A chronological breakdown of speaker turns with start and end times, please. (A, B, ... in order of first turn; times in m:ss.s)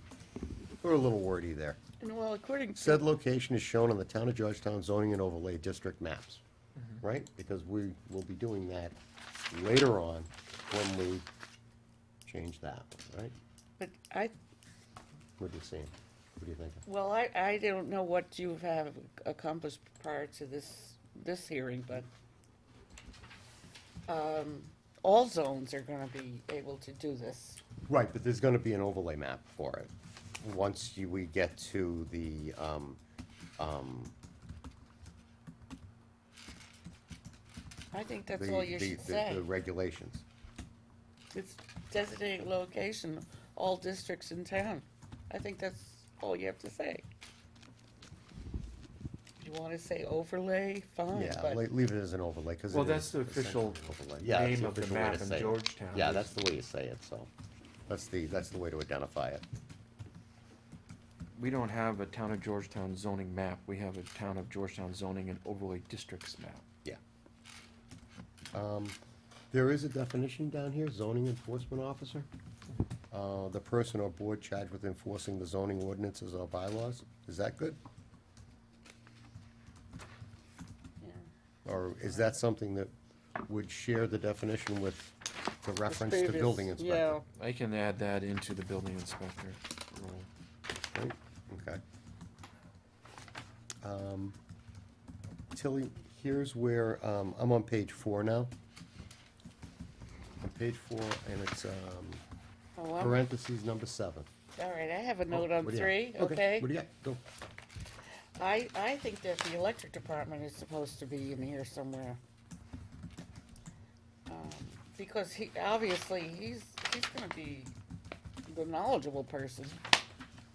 0:00.8-0:01.8 A
0:02.0-0:03.0 B
0:02.8-0:06.4 A
0:07.0-0:09.0 A
0:09.5-0:11.3 A
0:12.2-0:13.3 A
0:13.8-0:14.3 B
0:15.4-0:16.8 A
0:16.8-0:22.1 B
0:24.1-0:27.6 B
0:27.9-0:33.0 A
0:33.6-0:34.1 A
0:37.9-0:39.4 B
0:38.3-0:40.2 A
0:41.3-0:47.0 B
0:49.4-0:51.6 B
0:51.1-0:57.3 A
0:52.7-0:56.3 C
0:57.9-0:59.4 A
1:01.4-1:06.6 C
1:08.5-1:09.0 A
1:09.5-1:12.3 A
1:13.1-1:17.8 A
1:21.0-1:21.2 B
1:21.6-1:22.9 A
1:23.4-1:27.2 A
1:25.9-1:27.2 B
1:27.4-1:30.3 C
1:30.9-1:31.8 A
1:33.8-1:34.4 A
1:35.5-1:38.5 A
1:40.4-1:42.2 A
1:42.8-1:43.2 B
1:43.0-1:44.3 A
1:44.6-1:46.7 B
1:45.3-1:47.2 A
1:48.4-1:52.2 B
1:54.3-1:57.7 B
1:58.5-1:59.8 B